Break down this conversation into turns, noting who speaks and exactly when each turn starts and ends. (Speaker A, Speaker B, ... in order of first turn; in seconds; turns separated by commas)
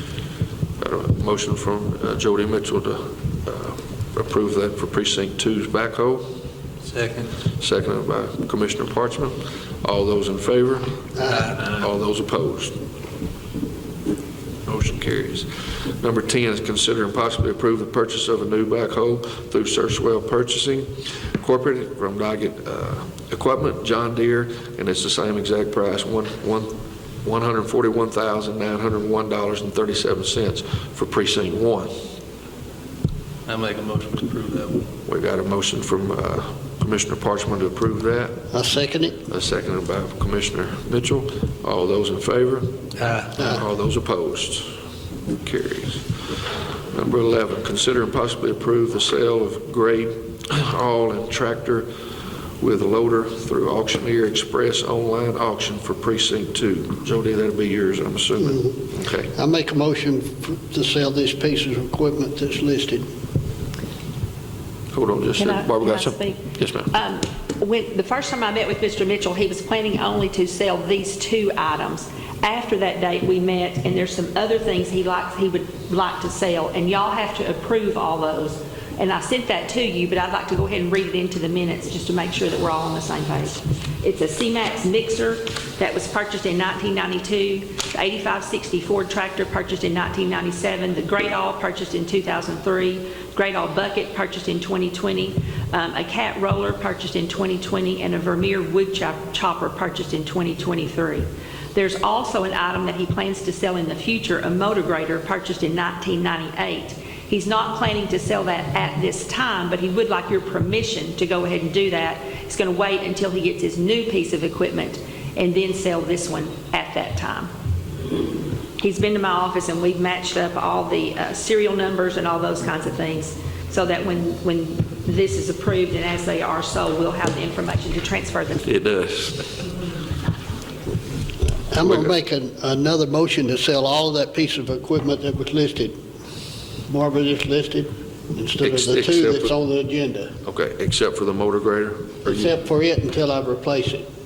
Speaker A: 0.8-6.2, Speaker B: 6.8-7.3, Speaker A: 7.6-12.8, Speaker C: 11.2-11.5, Speaker A: 14.7-15.5, Speaker A: 16.0-31.9, Speaker B: 33.5-34.9, Speaker A: 35.1-38.4, Speaker C: 38.5-39.2, Speaker A: 39.3-44.7, Speaker B: 43.0-43.3, Speaker A: 45.4-46.0, Speaker A: 46.9-51.9, Speaker A: 52.6-59.3, Speaker C: 58.4-58.8, Speaker C: 59.4-63.1, Speaker A: 64.9-66.9, Speaker D: 65.4-66.4, Speaker D: 66.9-117.5, Speaker D: 118.8-128.7, Speaker A: 128.6-129.5, Speaker C: 131.7-136.0, Speaker A: 131.8-132.2, Speaker C: 136.9-140.3, Speaker A: 138.6-139.5, Speaker A: 140.4-142.5, Speaker C: 142.2-144.0